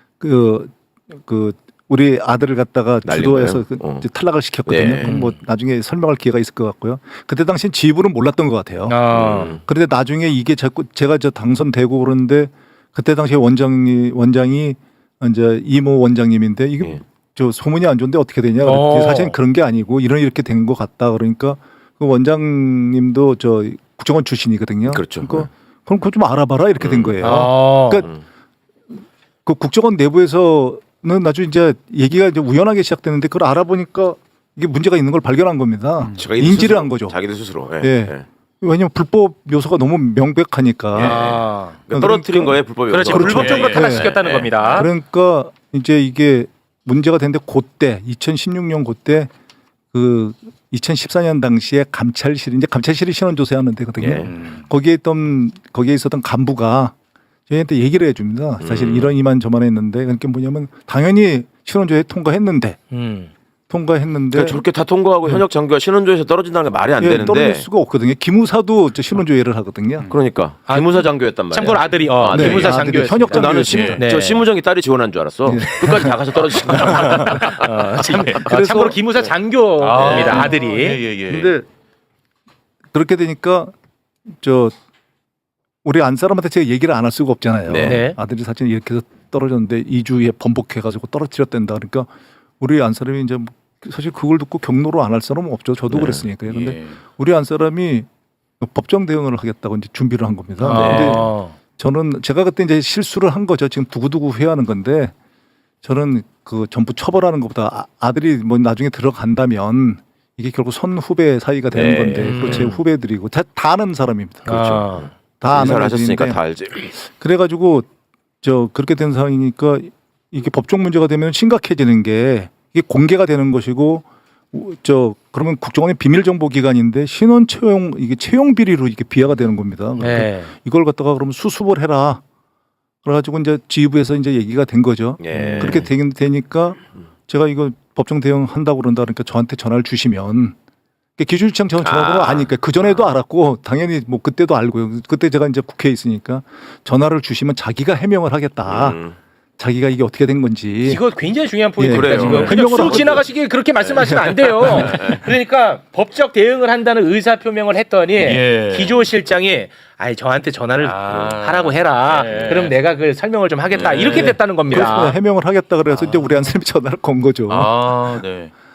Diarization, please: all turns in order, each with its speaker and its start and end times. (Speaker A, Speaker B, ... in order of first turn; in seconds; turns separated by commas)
Speaker A: 0.2-28.1, Speaker B: 3.0-4.1, Speaker B: 4.6-5.2, Speaker C: 5.0-5.4, Speaker C: 8.9-9.6, Speaker B: 9.1-9.6, Speaker C: 18.6-19.4, Speaker B: 24.9-25.5, Speaker B: 26.8-28.2, Speaker C: 27.2-28.1, Speaker A: 29.4-37.2, Speaker B: 36.2-38.2, Speaker A: 37.8-41.2, Speaker B: 40.9-44.3, Speaker C: 41.0-41.8, Speaker A: 41.9-44.1, Speaker C: 42.9-44.9, Speaker D: 43.2-44.8, Speaker A: 44.7-49.3, Speaker A: 49.9-56.9, Speaker B: 54.0-54.3, Speaker D: 54.2-54.6, Speaker A: 57.5-62.8, Speaker B: 58.6-59.1, Speaker C: 62.9-63.3, Speaker A: 63.7-64.6, Speaker B: 64.3-67.7, Speaker A: 67.0-70.1, Speaker B: 70.1-78.6, Speaker C: 70.7-74.4, Speaker A: 72.3-74.0, Speaker D: 73.7-74.0, Speaker A: 75.4-76.2, Speaker A: 77.0-77.4, Speaker C: 77.3-81.0, Speaker A: 78.4-79.0, Speaker D: 79.8-81.6, Speaker A: 81.3-81.6, Speaker A: 82.9-83.7, Speaker A: 84.3-84.7, Speaker A: 85.8-98.1, Speaker B: 87.7-88.0, Speaker C: 87.8-88.2, Speaker B: 95.9-96.2, Speaker D: 96.4-97.0, Speaker A: 98.6-105.1, Speaker C: 100.6-101.6, Speaker B: 100.7-101.2, Speaker A: 105.8-114.5, Speaker B: 111.7-112.7, Speaker C: 112.2-112.8, Speaker C: 114.5-115.1, Speaker B: 114.5-116.9, Speaker A: 115.4-116.4, Speaker A: 117.0-117.9, Speaker A: 118.4-132.2, Speaker C: 130.0-130.5, Speaker A: 133.0-140.5, Speaker B: 135.2-135.9, Speaker C: 135.3-135.8, Speaker A: 141.2-149.0, Speaker B: 141.8-143.1, Speaker B: 148.6-149.2, Speaker A: 149.6-151.0, Speaker C: 150.8-165.2, Speaker A: 151.8-153.2, Speaker B: 151.8-153.2, Speaker D: 152.1-152.6, Speaker A: 154.0-155.0, Speaker D: 158.2-159.1, Speaker D: 160.8-162.8, Speaker D: 163.7-165.0, Speaker A: 164.1-167.7, Speaker D: 165.9-166.3, Speaker D: 167.5-168.5